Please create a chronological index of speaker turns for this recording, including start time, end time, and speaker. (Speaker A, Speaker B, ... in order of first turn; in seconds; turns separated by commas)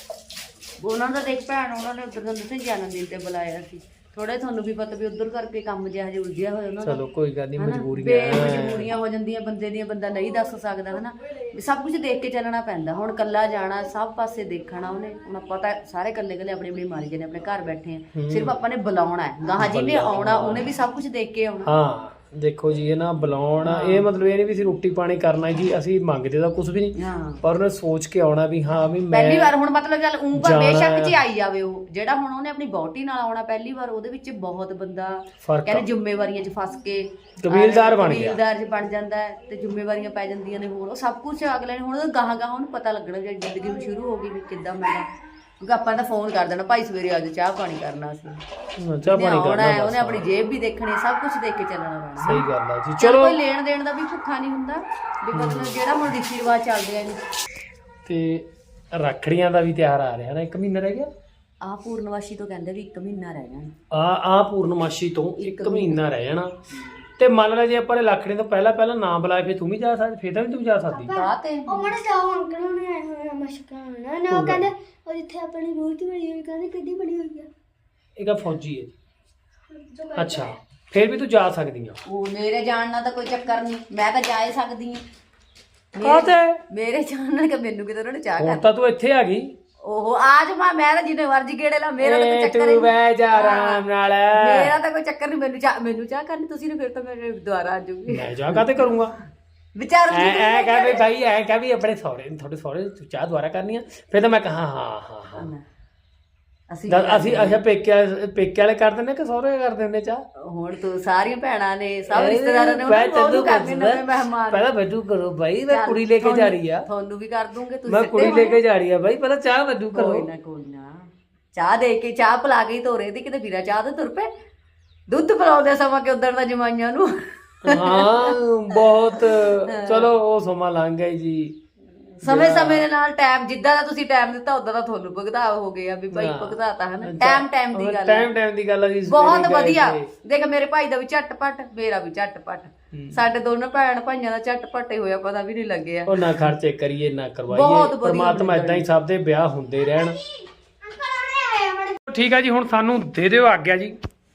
Speaker A: 0.8-7.0, Speaker B: 6.8-8.9, Speaker A: 7.6-21.7, Speaker B: 18.1-18.5, Speaker B: 19.6-20.6, Speaker B: 21.6-29.5, Speaker A: 23.6-24.1, Speaker A: 26.9-27.4, Speaker A: 29.1-45.1, Speaker B: 30.3-31.2, Speaker B: 35.4-35.8, Speaker B: 37.4-38.4, Speaker A: 45.6-48.4, Speaker B: 48.8-50.3, Speaker A: 49.1-52.5, Speaker B: 52.2-53.4, Speaker A: 53.0-57.2, Speaker B: 55.3-55.7, Speaker B: 58.0-61.1, Speaker A: 61.6-63.7, Speaker B: 63.9-66.5, Speaker A: 65.4-66.0, Speaker A: 66.7-67.0, Speaker B: 67.2-71.2, Speaker A: 71.0-72.0, Speaker C: 71.1-77.5, Speaker B: 74.3-74.7, Speaker B: 78.2-78.9, Speaker C: 79.7-80.5, Speaker B: 80.1-82.0, Speaker A: 82.0-85.0, Speaker A: 85.9-88.6, Speaker B: 86.0-86.6, Speaker B: 88.4-89.5, Speaker A: 89.8-98.8, Speaker B: 92.0-94.7, Speaker B: 98.1-99.1, Speaker A: 99.7-101.0, Speaker B: 100.1-105.5, Speaker A: 105.4-105.6, Speaker A: 106.7-107.6, Speaker B: 106.9-110.2, Speaker A: 110.4-114.7, Speaker B: 112.1-116.9, Speaker A: 115.7-118.6, Speaker B: 117.8-120.3, Speaker A: 119.9-124.3, Speaker A: 125.1-130.1, Speaker B: 127.6-131.6, Speaker B: 132.2-132.8, Speaker A: 132.2-138.3, Speaker B: 136.1-140.1, Speaker A: 139.1-146.3, Speaker B: 142.9-143.2, Speaker B: 146.1-150.2, Speaker A: 147.5-148.9, Speaker C: 150.9-152.0, Speaker B: 152.1-153.9